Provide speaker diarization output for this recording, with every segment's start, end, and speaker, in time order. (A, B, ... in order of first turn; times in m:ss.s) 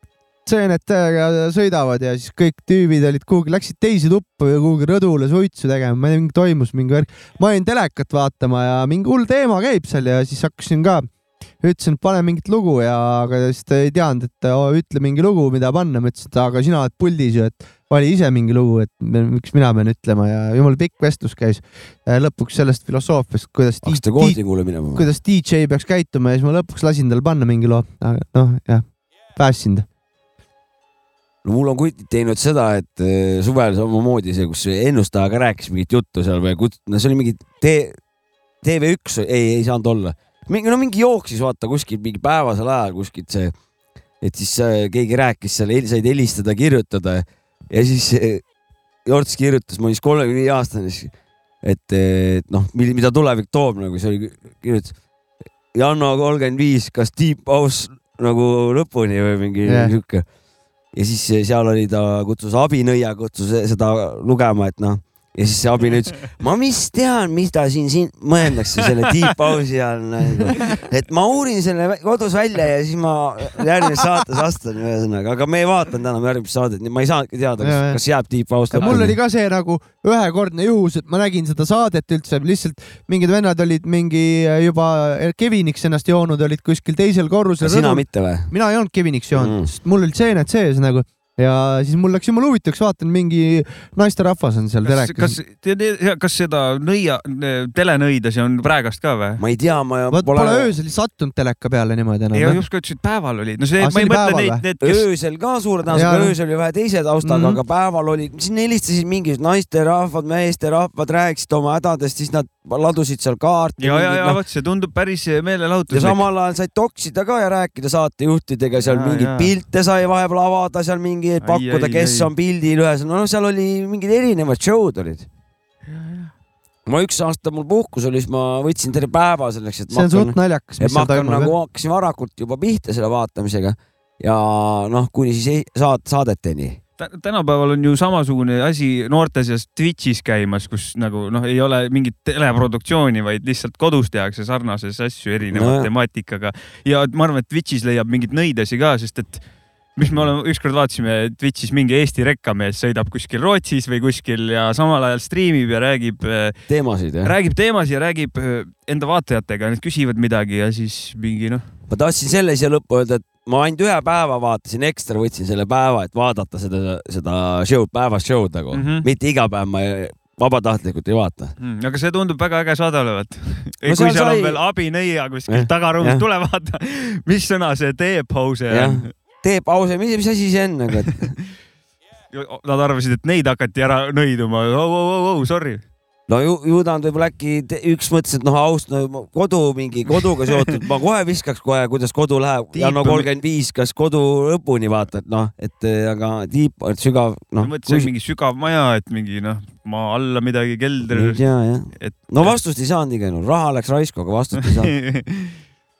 0:00.4-0:11.0 A
0:11.6-0:29.8 A
0:23.8-0:25.1 B
0:31.4-0:38.0 B
0:38.6-0:43.5 B
0:44.2-0:48.4 B
0:49.0-0:51.1 B
0:51.6-0:54.9 B
0:55.7-1:00.2 B
0:59.6-0:59.9 A
1:00.9-1:19.1 B
1:17.6-1:18.0 A
1:18.7-1:35.4 A
1:27.6-1:28.5 B
1:29.4-1:29.7 B
1:34.8-1:39.4 C
1:39.4-1:40.7 B
1:40.1-1:42.6 A
1:42.3-1:45.0 C
1:43.8-1:44.6 A
1:44.8-1:54.4 B
1:45.9-1:46.3 A
1:47.2-1:47.6 A
1:53.8-1:56.2 C
1:55.9-2:05.3 B
1:58.8-1:59.5 C
2:01.4-2:02.3 C
2:05.9-2:06.3 C
2:06.9-2:16.8 B
2:09.9-2:11.5 A
2:17.0-2:29.4 C
2:25.5-2:25.9 B
2:30.0-2:36.6 C
2:36.7-2:37.3 B
2:37.2-2:41.6 C
2:41.9-2:51.5 B
2:48.7-2:49.0 C
2:51.6-2:59.1 C
2:53.8-2:54.6 B
2:55.5-2:56.2 B
2:58.7-3:01.3 B
3:02.3-3:05.8 C
3:06.3-3:18.1 B
3:12.7-3:13.3 C
3:17.6-3:21.4 C
3:21.0-3:24.9 B
3:22.0-3:22.5 C
3:24.6-3:25.5 C